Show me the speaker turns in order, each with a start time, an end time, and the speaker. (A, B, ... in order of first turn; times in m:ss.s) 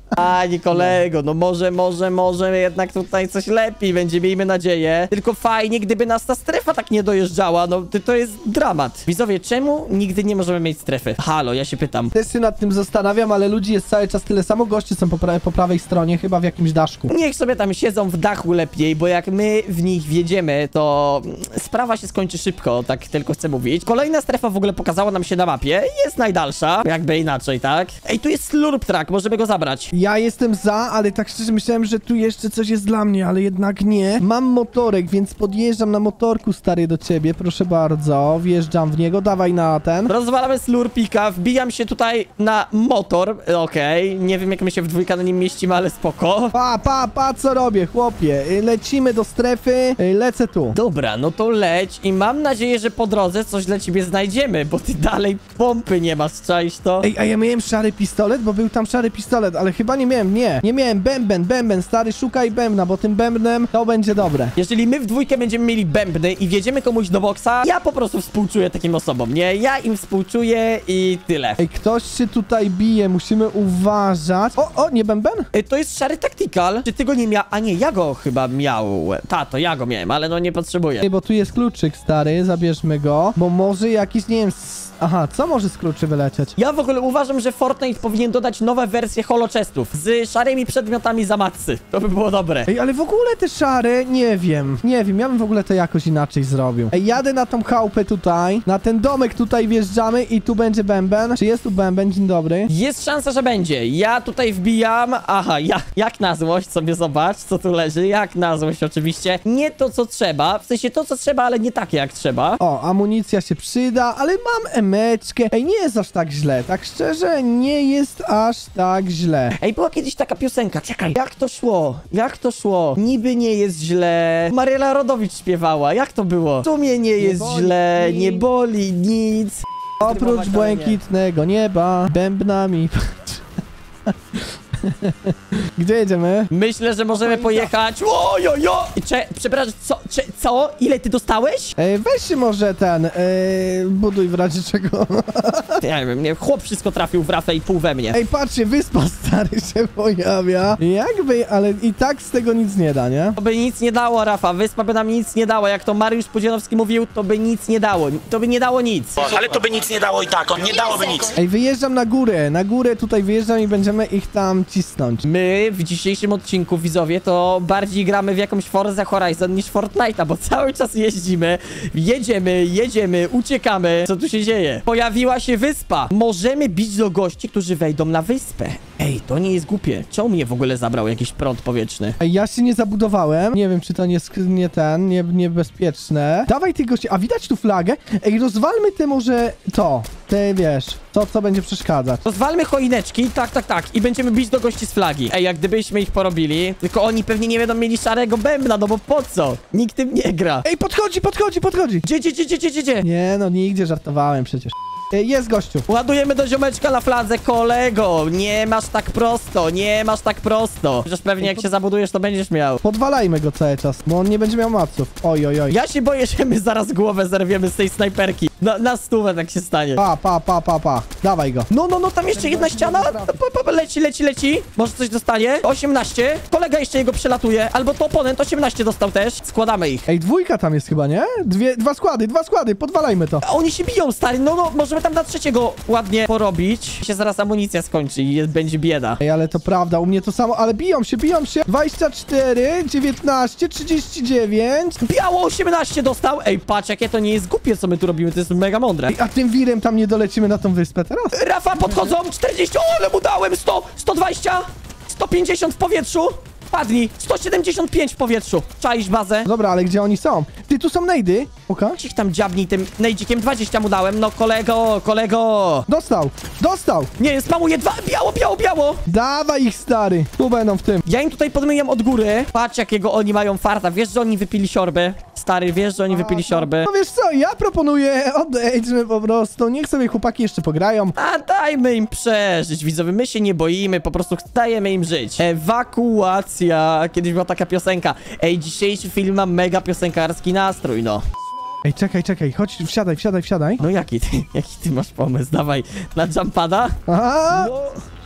0:00.1-0:12.1 A
0:00.7-0:01.0 B
0:12.1-0:17.1 B
0:17.1-0:29.9 A
0:29.9-0:40.1 B
0:40.1-0:46.5 A
0:46.5-0:50.8 B
0:50.7-0:57.1 A
0:57.0-1:04.5 B
1:04.6-1:11.6 A
1:11.6-1:15.5 B
1:15.5-1:21.1 A
1:21.0-1:26.5 B
1:26.6-1:32.7 A
1:32.7-1:42.7 B
1:42.7-1:52.6 A
1:52.6-1:59.6 B
1:59.6-2:11.0 A
2:07.2-2:08.4 B
2:10.0-2:13.4 B
2:14.1-2:16.5 B
2:16.5-2:21.7 A
2:17.2-2:17.7 B
2:21.8-2:25.8 B
2:25.8-2:28.2 A
2:28.1-2:33.4 B
2:33.4-2:39.2 A
2:39.2-2:41.3 C
2:41.4-2:45.2 B
2:45.2-3:02.2 A
3:02.2-3:12.2 B
3:12.2-3:20.6 A
3:20.6-3:22.0 B
3:22.0-3:23.0 A
3:23.0-3:25.8 B
3:25.9-3:32.8 A
3:31.4-3:31.7 B
3:32.8-3:35.8 B
3:35.7-3:40.0 A
3:40.0-3:41.7 B
3:41.7-3:50.1 A
3:42.3-3:43.4 B
3:50.1-3:53.4 B
3:53.4-3:59.2 A
3:59.2-4:05.0 B
4:05.0-4:09.2 A
4:09.1-4:12.1 B
4:11.3-4:19.5 A
4:19.4-4:22.0 B
4:22.0-4:25.8 A
4:25.9-4:27.1 B
4:27.2-4:29.0 A
4:29.1-4:31.0 B
4:31.0-4:36.9 A
4:36.1-4:41.2 B
4:41.2-4:51.2 A
4:51.8-4:53.8 B
4:53.8-4:56.9 A
4:57.1-4:57.7 B
4:57.5-4:58.0 A